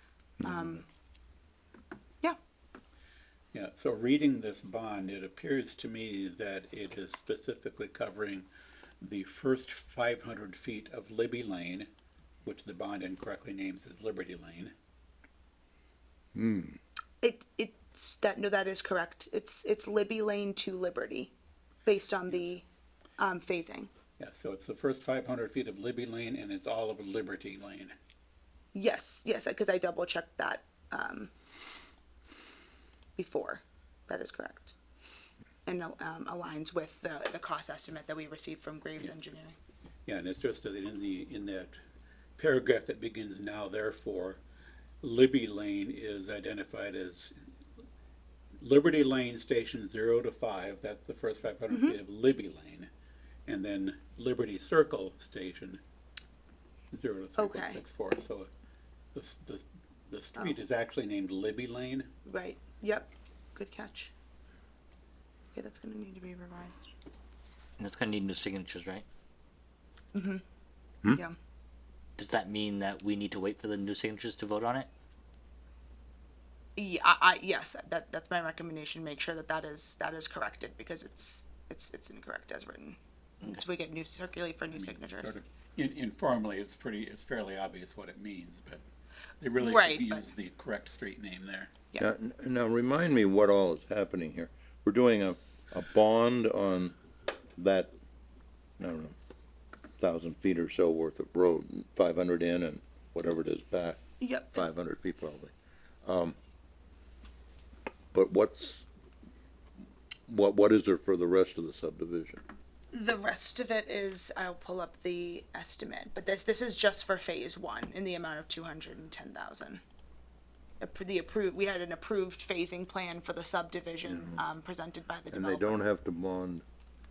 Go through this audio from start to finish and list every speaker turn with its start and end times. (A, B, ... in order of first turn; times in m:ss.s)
0:00.4-0:00.8 A
0:00.4-0:00.8 B
0:03.5-0:08.5 C
0:09.0-0:11.9 C
0:12.4-0:14.7 C
0:16.3-0:16.8 B
0:17.2-0:21.3 A
0:21.8-0:22.6 A
0:23.2-0:23.9 A
0:24.2-0:27.9 C
0:28.7-0:31.3 A
0:33.2-0:34.7 A
0:35.6-0:39.6 A
0:40.0-0:41.8 C
0:42.4-0:44.4 C
0:45.0-0:47.3 C
0:48.6-0:52.9 C
0:51.7-0:52.0 A
0:53.5-0:55.8 C
0:56.9-0:58.5 C
0:57.4-0:57.8 A
0:59.1-1:02.1 C
1:02.2-1:04.1 A
1:05.5-1:06.8 A
1:07.8-1:09.0 D
1:10.1-1:10.4 A
1:12.2-1:14.9 D
1:16.8-1:25.3 A
1:24.7-1:28.8 C
1:29.4-1:31.7 C
1:29.6-1:30.2 A
1:32.0-1:36.9 B
1:37.6-1:37.9 B
1:38.8-1:39.1 B
1:40.0-1:44.0 B
1:44.2-1:44.7 A
1:44.5-1:45.5 B
1:46.0-1:46.4 B
1:48.1-1:48.8 B
1:50.3-1:52.4 B
1:52.9-1:59.8 A
2:00.8-2:05.8 A
2:04.0-2:04.4 B
2:05.3-2:06.6 B